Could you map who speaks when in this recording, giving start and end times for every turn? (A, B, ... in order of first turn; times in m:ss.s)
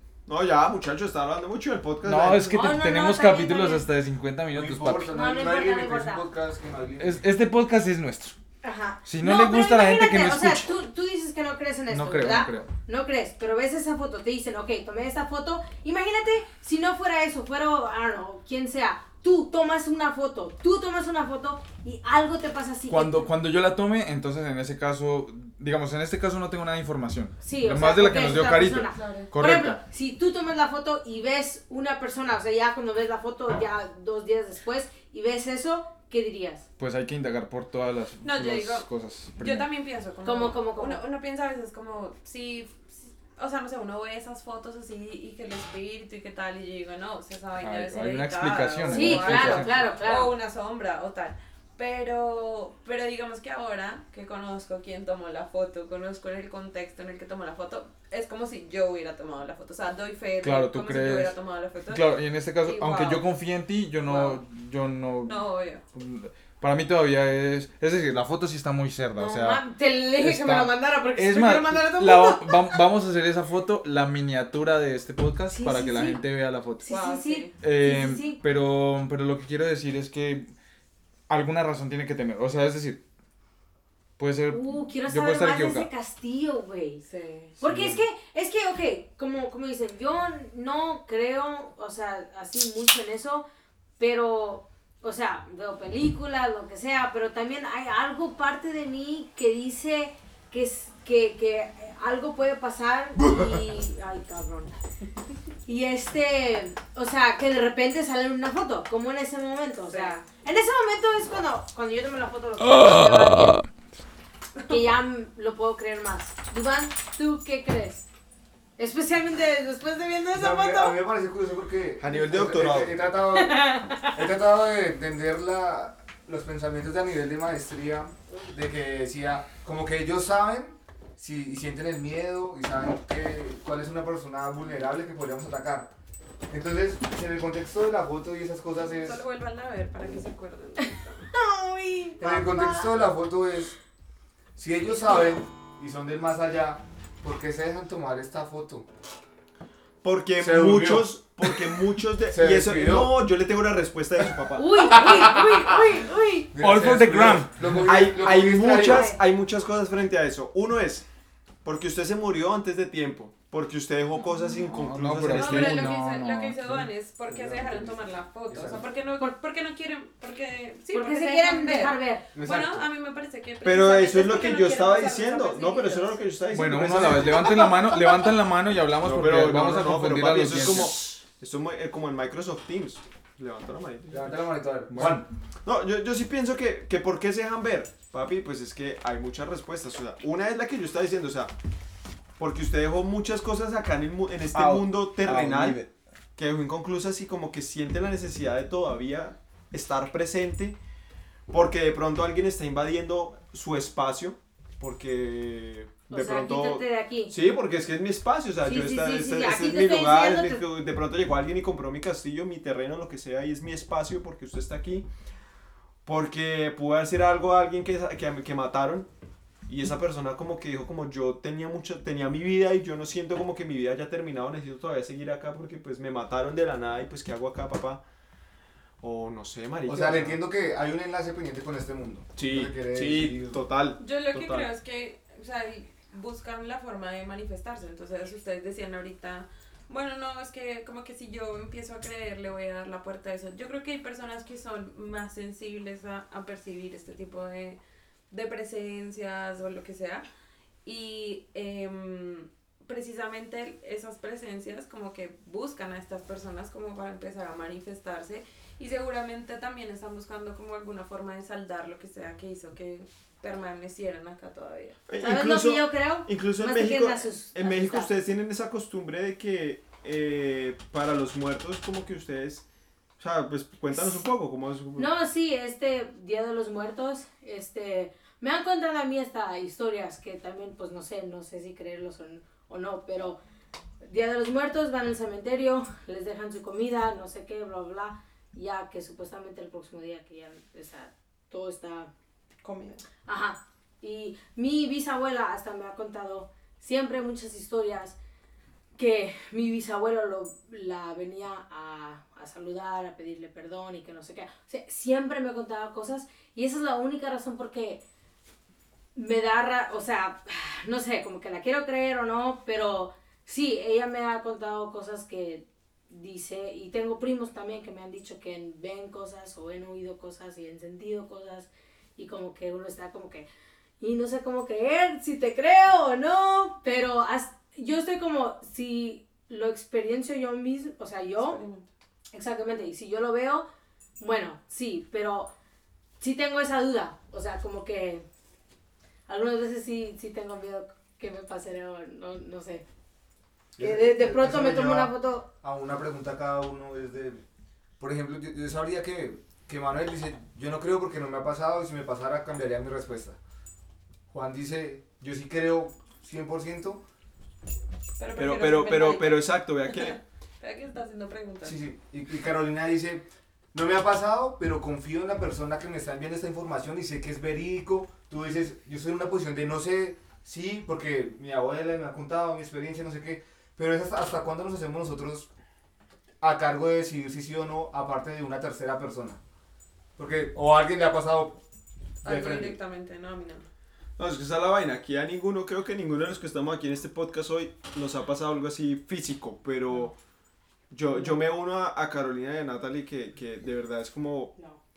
0:00.3-0:02.5 A
0:02.0-0:05.1 B
0:02.5-0:03.9 C
0:04.5-0:07.2 D
0:05.1-0:06.2 C
0:07.0-0:08.4 B
0:08.6-0:23.3 C
0:09.0-0:10.7 B
0:11.9-0:12.7 B
0:22.9-0:29.8 B
0:27.4-0:36.7 C
0:28.7-0:29.3 E
0:36.8-0:39.7 B
0:38.2-1:03.2 E
0:40.2-0:41.0 C
0:47.6-0:49.8 B
0:48.9-0:50.3 C
1:00.4-1:01.4 B
1:01.9-1:09.6 B
1:05.3-1:05.8 E
1:09.2-1:12.8 C
1:10.2-1:16.9 B
1:15.5-1:16.2 C
1:16.8-1:18.4 C
1:16.9-1:17.5 E
1:17.6-1:20.5 B
1:21.3-1:23.0 B
1:24.2-1:25.9 B
1:24.5-1:27.0 C
1:27.1-1:27.5 E
1:27.6-1:33.5 C
1:27.6-1:28.0 B
1:34.0-1:44.7 C
1:45.7-1:53.7 C
1:49.9-1:50.2 E
1:54.7-1:58.1 C
1:58.8-2:01.0 C
2:00.3-2:15.9 D
2:02.0-2:03.0 A
2:03.3-2:04.1 C
2:16.5-2:19.2 D
2:19.0-2:21.3 E
2:21.3-2:23.0 C
2:22.2-2:23.8 D
2:24.6-2:28.9 D
2:30.0-2:35.2 A
2:30.4-2:33.2 D
2:34.6-2:36.5 C
2:34.9-2:35.8 D
2:36.5-2:39.1 D
2:36.6-2:37.9 B
2:37.8-2:41.1 A
2:38.8-2:39.2 C
2:41.6-2:46.0 A
2:44.7-2:46.9 B
2:45.3-2:56.2 E
2:47.3-2:48.0 D
2:48.5-2:48.8 D
2:50.9-2:52.3 C
2:52.4-2:52.8 A
2:52.4-2:52.7 D
2:53.6-2:57.9 A
2:56.5-3:01.0 B
2:59.0-3:11.5 A
3:04.1-3:05.2 D
3:04.9-3:05.2 B
3:12.4-3:20.8 A
3:14.5-3:15.9 B
3:21.5-3:35.1 A
3:26.1-3:27.3 C
3:28.6-3:30.6 C
3:36.0-3:39.1 A
3:39.7-3:48.0 A
3:49.0-3:50.4 A
3:49.9-3:53.6 D
3:52.4-3:54.7 A
3:54.0-4:07.8 E
4:08.3-4:10.3 E
4:10.8-4:25.0 E
4:25.1-4:32.6 A
4:25.2-4:28.1 C
4:33.2-4:35.1 A
4:35.0-4:43.4 C
4:44.0-4:52.1 C
4:52.6-4:53.0 E
4:53.3-4:58.2 C
4:59.0-5:08.0 C
5:09.2-5:23.5 C
5:24.0-5:31.6 C
5:31.4-5:31.9 E
5:32.3-5:33.7 C
5:34.2-5:35.5 C
5:36.2-5:38.3 C
5:39.3-5:42.8 C
5:43.8-5:47.4 D
5:43.8-5:45.5 C
5:48.0-5:53.4 D
5:54.3-5:57.0 D
5:58.2-6:01.8 E
5:58.4-6:00.2 A
6:01.6-6:15.5 D
6:16.4-6:19.4 D
6:20.2-6:21.6 D
6:22.2-6:23.7 E
6:22.2-6:22.8 D
6:24.2-6:30.2 A
6:30.9-6:34.5 A